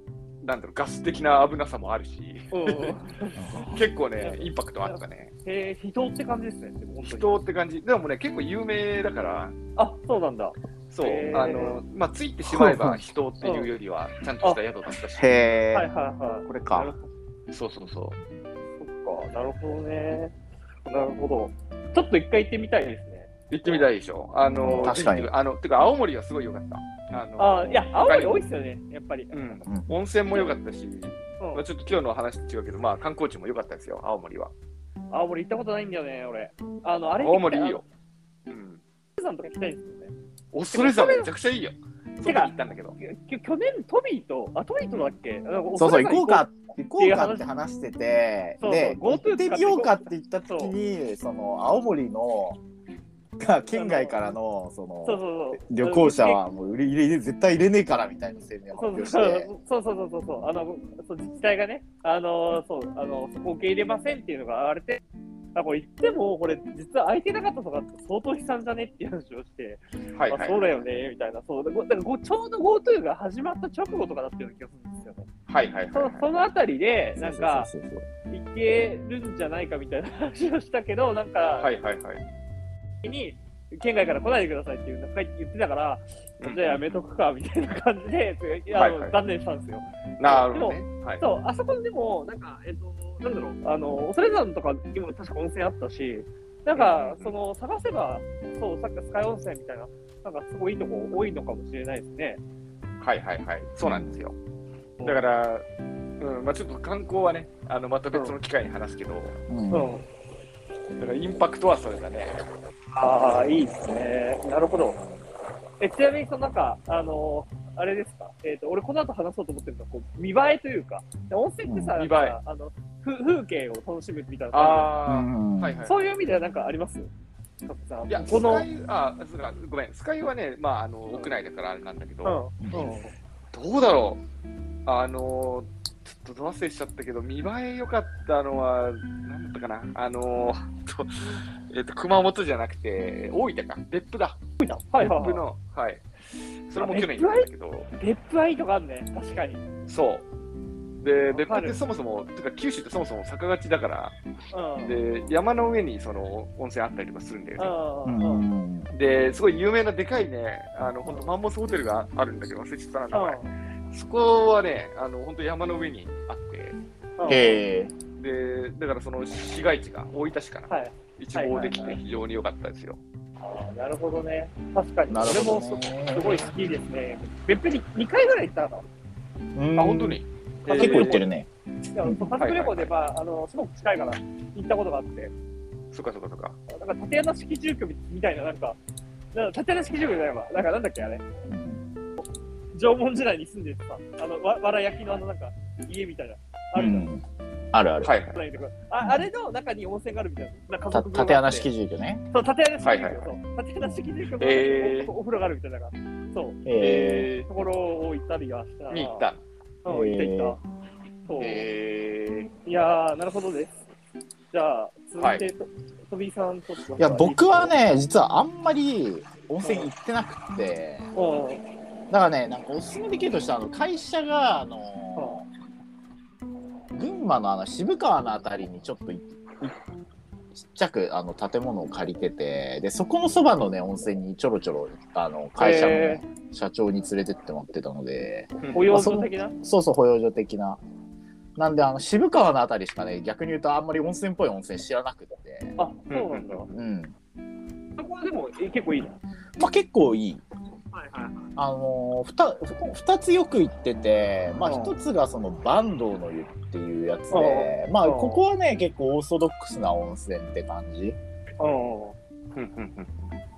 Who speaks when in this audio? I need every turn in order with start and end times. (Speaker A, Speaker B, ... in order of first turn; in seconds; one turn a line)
Speaker A: 0.4-3.0
Speaker B: 2.5-3.5
Speaker C: 3.4-3.9
Speaker A: 3.6-5.3
Speaker B: 4.2-7.4
Speaker A: 7.0-9.5
Speaker B: 9.8-11.8
Speaker A: 10.9-15.4
Speaker C: 12.5-13.0
Speaker B: 13.4-13.7
Speaker C: 15.2-15.9
Speaker B: 15.7-17.1
Speaker C: 16.4-16.9
Speaker A: 17.5-18.2
Speaker B: 18.8-20.3
Speaker B: 20.8-23.8
Speaker A: 23.5-28.4
Speaker C: 24.6-25.3
Speaker B: 27.4-29.6
Speaker A: 29.3-34.5
Speaker C: 29.7-30.0
Speaker B: 31.4-31.6
Speaker B: 35.1-37.8
Speaker A: 37.2-37.8
Speaker A: 38.5-38.8
Speaker B: 39.2-40.1
Speaker A: 40.5-43.0
Speaker B: 40.7-41.3
Speaker B: 42.2-46.5
Speaker C: 45.8-52.6
Speaker B: 47.0-47.5
Speaker B: 48.6-50.7
Speaker C: 53.4-59.5
Speaker B: 53.7-54.1
Speaker B: 55.0-56.4
Speaker B: 58.7-65.0
Speaker B: 65.5-75.3
Speaker A: 70.2-70.6
Speaker A: 75.5-76.3
Speaker B: 75.9-77.7
Speaker C: 77.2-78.0
Speaker B: 78.3-81.7
Speaker A: 81.6-82.2
Speaker B: 83.0-102.4
Speaker A: 86.4-87.0
Speaker A: 88.7-89.1
Speaker A: 90.2-91.2
Speaker A: 96.7-97.3
Speaker A: 103.0-104.3
Speaker C: 103.8-104.1
Speaker A: 105.0-105.6
Speaker A: 106.2-109.4
Speaker C: 109.5-109.9
Speaker B: 109.7-110.0
Speaker A: 111.0-112.4
Speaker B: 112.9-115.0
Speaker A: 114.9-115.2
Speaker B: 115.8-124.9
Speaker C: 121.6-121.9
Speaker A: 122.0-122.4
Speaker A: 124.5-125.9
Speaker C: 125.1-125.8
Speaker B: 125.8-127.1
Speaker B: 127.6-128.7
Speaker A: 128.1-132.4
Speaker B: 132.2-133.1
Speaker C: 132.6-132.9
Speaker A: 133.5-134.2
Speaker A: 134.8-144.4
Speaker B: 144.6-145.4
Speaker A: 145.0-146.0
Speaker A: 146.7-147.9
Speaker B: 146.7-149.6
Speaker A: 149.9-150.2
Speaker A: 151.0-154.1
Speaker B: 151.3-151.8
Speaker B: 154.5-155.0
Speaker A: 154.8-157.8
Speaker B: 157.6-158.4
Speaker C: 158.1-158.9
Speaker A: 158.9-163.4
Speaker B: 163.1-163.5
Speaker A: 163.9-166.8
Speaker B: 167.2-167.6
Speaker C: 167.3-167.9
Speaker A: 168.2-173.0
Speaker B: 170.7-172.0
Speaker B: 173.4-178.9
Speaker C: 175.1-176.5
Speaker C: 179.6-181.5
Speaker A: 179.8-181.2
Speaker B: 180.6-181.2
Speaker B: 181.9-185.3
Speaker C: 182.0-182.3
Speaker A: 182.4-182.9
Speaker A: 185.9-186.6
Speaker B: 186.7-188.8
Speaker B: 189.3-191.2
Speaker C: 191.5-191.8
Speaker B: 192.7-197.1
Speaker C: 196.7-198.1
Speaker A: 198.0-198.4
Speaker B: 198.3-201.7
Speaker C: 199.0-199.3
Speaker C: 200.9-202.2
Speaker B: 202.3-206.6
Speaker A: 202.8-203.3
Speaker A: 204.4-205.1
Speaker C: 206.6-207.3
Speaker A: 206.8-207.5
Speaker B: 207.4-209.3
Speaker A: 208.9-209.4
Speaker B: 209.8-210.6
Speaker C: 209.9-210.6
Speaker B: 211.3-211.7
Speaker A: 211.4-212.5
Speaker B: 212.6-213.8
Speaker B: 214.5-217.7
Speaker A: 215.2-215.4
Speaker C: 217.0-221.1
Speaker B: 219.6-219.9
Speaker B: 221.1-221.6
Speaker C: 222.1-225.5
Speaker B: 225.1-225.4
Speaker C: 226.9-229.8
Speaker C: 230.5-240.8
Speaker B: 235.6-236.2
Speaker A: 238.6-238.9
Speaker B: 238.7-239.6
Speaker C: 241.6-245.8
Speaker B: 245.8-246.7
Speaker A: 246.1-246.7
Speaker C: 246.7-247.1
Speaker B: 248.0-249.2
Speaker C: 249.6-250.4
Speaker B: 250.9-251.5
Speaker C: 251.6-261.2
Speaker B: 254.6-254.9
Speaker B: 257.3-258.4
Speaker B: 261.6-262.1
Speaker A: 262.5-263.3